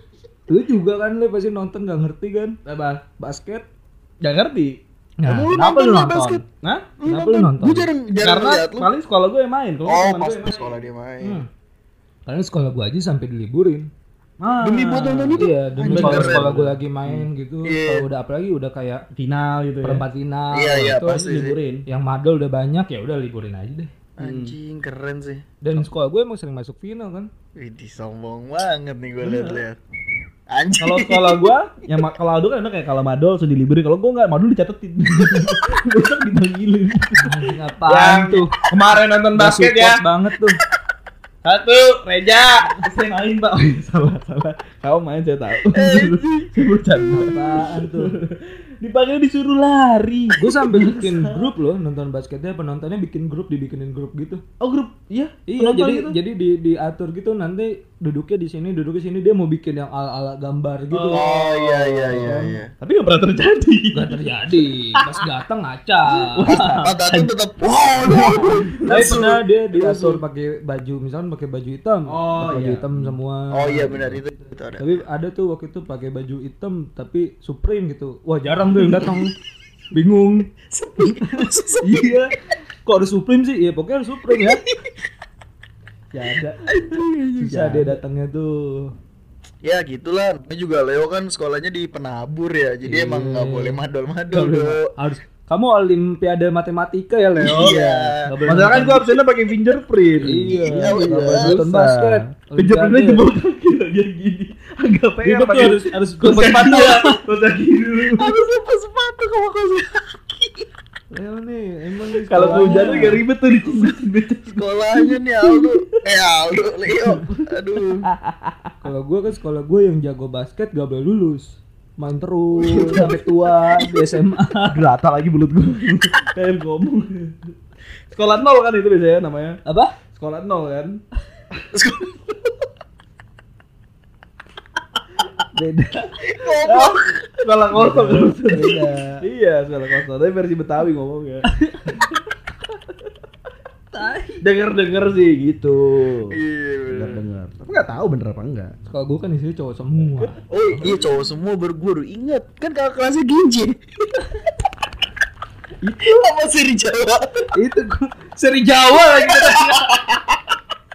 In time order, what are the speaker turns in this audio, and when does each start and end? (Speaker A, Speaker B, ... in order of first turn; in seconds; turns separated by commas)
Speaker A: 0.5-2.6, Speaker B: 2.7-3.0, Speaker A: 3.2-3.6, Speaker B: 4.2-4.8, Speaker A: 5.2-6.4, Speaker C: 5.3-6.4, Speaker B: 6.6-6.9, Speaker C: 7.0-8.9, Speaker A: 7.0-7.9, Speaker B: 8.2-10.7, Speaker C: 9.9-11.4, Speaker A: 11.2-11.5, Speaker A: 12.3-13.9, Speaker B: 14.4-17.3, Speaker C: 14.6-16.5, Speaker A: 15.4-19.0, Speaker C: 17.6-18.1, Speaker B: 19.2-20.0, Speaker A: 19.8-21.1, Speaker C: 20.5-21.6, Speaker B: 20.9-21.8, Speaker A: 21.9-23.9, Speaker C: 24.2-25.5, Speaker B: 24.2-24.5, Speaker A: 25.6-27.3, Speaker C: 27.6-29.8, Speaker B: 29.2-29.6, Speaker C: 30.5-31.5, Speaker B: 30.8-40.0, Speaker A: 37.2-38.5, Speaker A: 39.3-40.6, Speaker B: 41.5-51.5, Speaker C: 45.7-46.5, Speaker A: 47.1-48.2, Speaker A: 50.4-54.4, Speaker B: 54.6-56.2, Speaker A: 55.5-62.6, Speaker B: 60.9-64.3, Speaker C: 61.1-62.7, Speaker A: 63.9-66.8, Speaker B: 65.0-65.2, Speaker B: 66.2-67.3, Speaker C: 66.5-70.2, Speaker B: 68.0-69.0, Speaker A: 68.1-74.2, Speaker B: 72.1-73.2, Speaker C: 73.5-74.9, Speaker A: 74.8-79.3, Speaker C: 79.0-79.2, Speaker A: 79.9-80.5, Speaker C: 80.7-82.2, Speaker A: 81.2-82.3, Speaker A: 82.9-84.6, Speaker B: 86.1-88.0, Speaker C: 86.7-87.4, Speaker A: 87.4-88.9, Speaker C: 89.6-94.9, Speaker A: 92.8-99.1, Speaker C: 97.4-98.3, Speaker B: 98.5-108.4, Speaker A: 100.2-103.2, Speaker C: 100.5-101.6, Speaker A: 105.2-107.2, Speaker C: 108.1-110.7, Speaker A: 111.1-113.2, Speaker B: 112.3-115.9, Speaker C: 114.5-118.1, Speaker B: 117.0-117.5, Speaker B: 118.0-118.6, Speaker A: 118.8-124.8, Speaker B: 122.6-123.2, Speaker C: 123.7-124.1, Speaker B: 124.7-127.5, Speaker B: 128.1-129.6, Speaker A: 129.7-129.9, Speaker B: 130.1-131.0, Speaker C: 131.7-132.3, Speaker A: 135.5-136.2, Speaker C: 136.2-137.3, Speaker B: 136.6-142.2, Speaker A: 137.7-139.2, Speaker A: 141.5-142.0, Speaker A: 143.9-144.4, Speaker B: 144.4-146.4, Speaker C: 146.3-147.2, Speaker B: 146.9-148.7, Speaker A: 148.9-150.4, Speaker C: 150.5-154.2, Speaker A: 155.8-156.2, Speaker C: 156.0-157.4, Speaker A: 157.6-159.9, Speaker C: 159.0-160.4